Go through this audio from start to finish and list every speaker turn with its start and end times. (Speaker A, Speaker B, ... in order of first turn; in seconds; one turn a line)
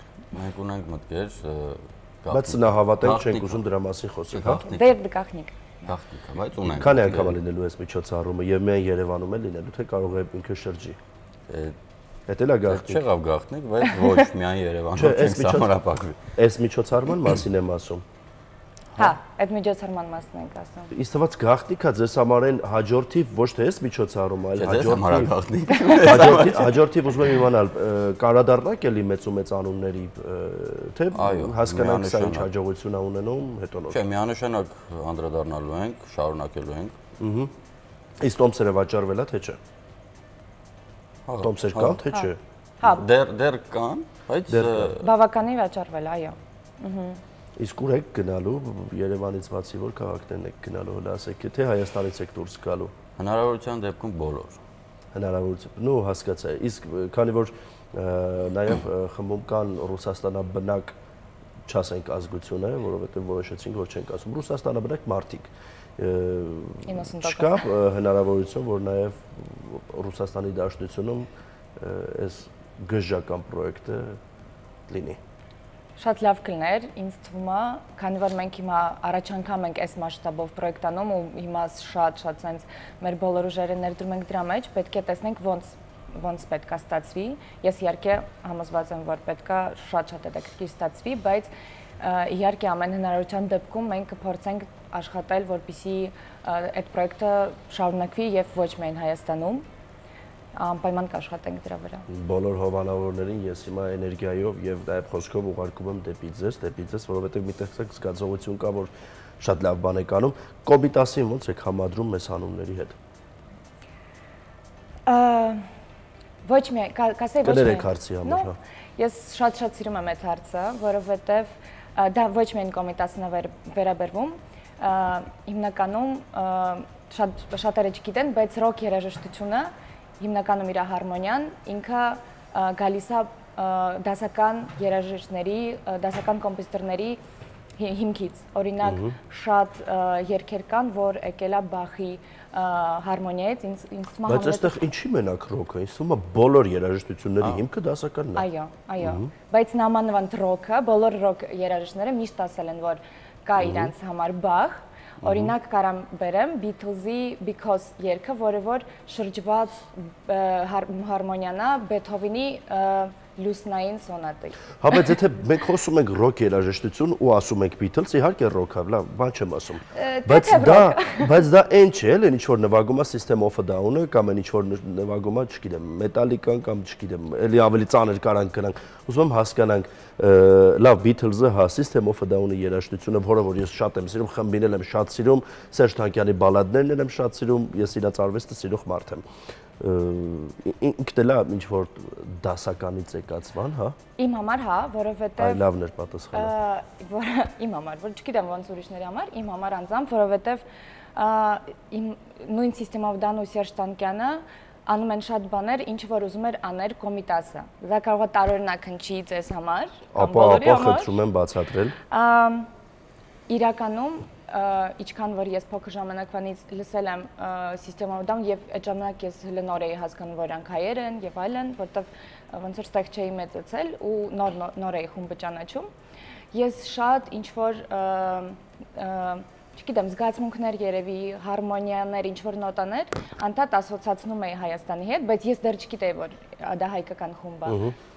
Speaker A: 0.3-3.6
Speaker B: 2.3-4.6
Speaker A: 4.3-4.9
Speaker C: 4.7-5.6
Speaker A: 5.8-7.4
Speaker B: 6.7-11.0
Speaker A: 11.5-11.7
Speaker B: 12.3-13.0
Speaker A: 12.7-16.2
Speaker B: 14.9-15.7
Speaker B: 16.3-18.0
Speaker C: 18.9-20.9
Speaker B: 20.9-25.3
Speaker A: 24.6-26.8
Speaker B: 26.0-34.0
Speaker A: 31.1-32.5
Speaker A: 33.9-36.9
Speaker B: 37.2-37.5
Speaker B: 38.2-39.6
Speaker A: 41.2-42.0
Speaker B: 41.4-42.4
Speaker A: 42.8-45.0
Speaker B: 44.5-44.9
Speaker C: 45.0-47.2
Speaker B: 47.6-52.9
Speaker A: 53.2-54.6
Speaker B: 55.1-60.9
Speaker B: 61.7-74.2
Speaker C: 66.8-67.7
Speaker B: 74.9-75.2
Speaker C: 76.0-99.6
Speaker C: 100.5-102.0
Speaker B: 102.1-113.0
Speaker C: 115.0-115.6
Speaker C: 116.4-137.2
Speaker B: 117.4-118.5
Speaker C: 137.8-144.9
Speaker B: 138.8-139.1
Speaker B: 144.3-148.5
Speaker C: 148.3-164.6
Speaker B: 149.0-149.3
Speaker B: 153.6-153.9
Speaker B: 164.8-189.2
Speaker C: 169.9-171.4
Speaker B: 189.8-193.9
Speaker C: 194.2-195.7
Speaker B: 195.4-196.5
Speaker C: 196.3-200.6
Speaker C: 201.2-211.2
Speaker B: 210.1-211.9
Speaker C: 212.1-212.7
Speaker C: 213.5-225.9
Speaker C: 226.5-237.8
Speaker B: 237.7-237.9